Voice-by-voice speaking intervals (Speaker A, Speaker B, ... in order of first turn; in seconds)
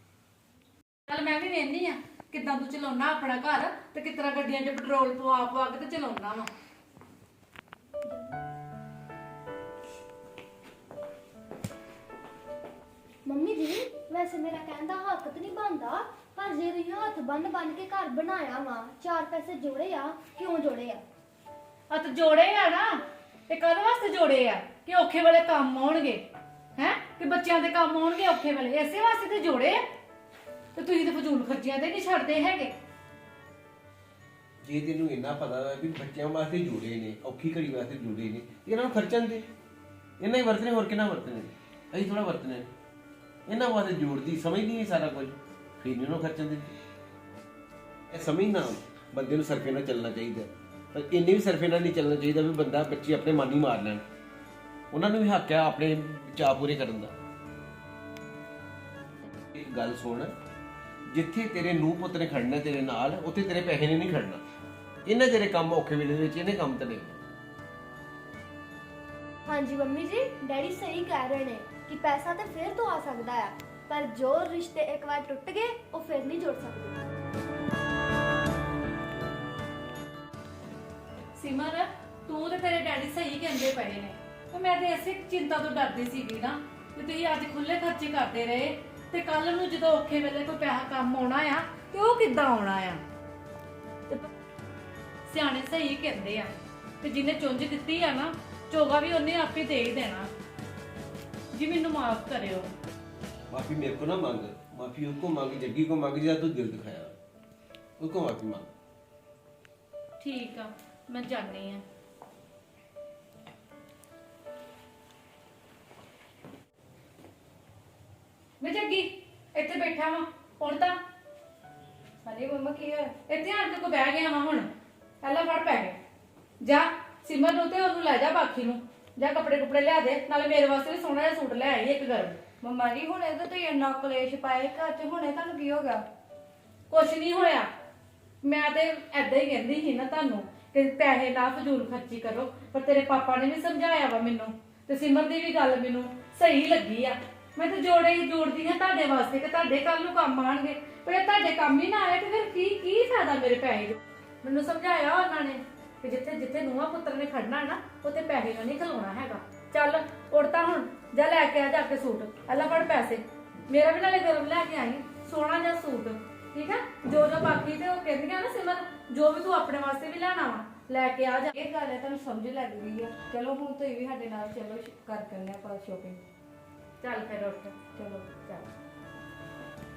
Speaker A: 1.1-6.5, 21.9-26.2, 26.8-29.8, 30.8-32.7, 81.3-93.0, 95.3-100.3, 101.5-102.7, 110.2-111.8, 118.6-121.0, 123.3-124.7, 125.2-126.0, 126.6-132.4, 136.9-137.7, 138.4-171.6, 177.0-177.8
Speaker B: 8.0-8.4, 13.2-21.0, 69.5-77.0
Speaker C: 34.6-39.5, 40.2-42.7, 43.5-46.7, 48.1-54.0, 54.9-57.1, 59.5-60.3, 61.1-64.4, 65.1-67.2, 103.5-107.2, 108.0-108.7
Speaker D: 122.2-123.1, 132.6-136.0, 171.6-176.2, 177.9-178.7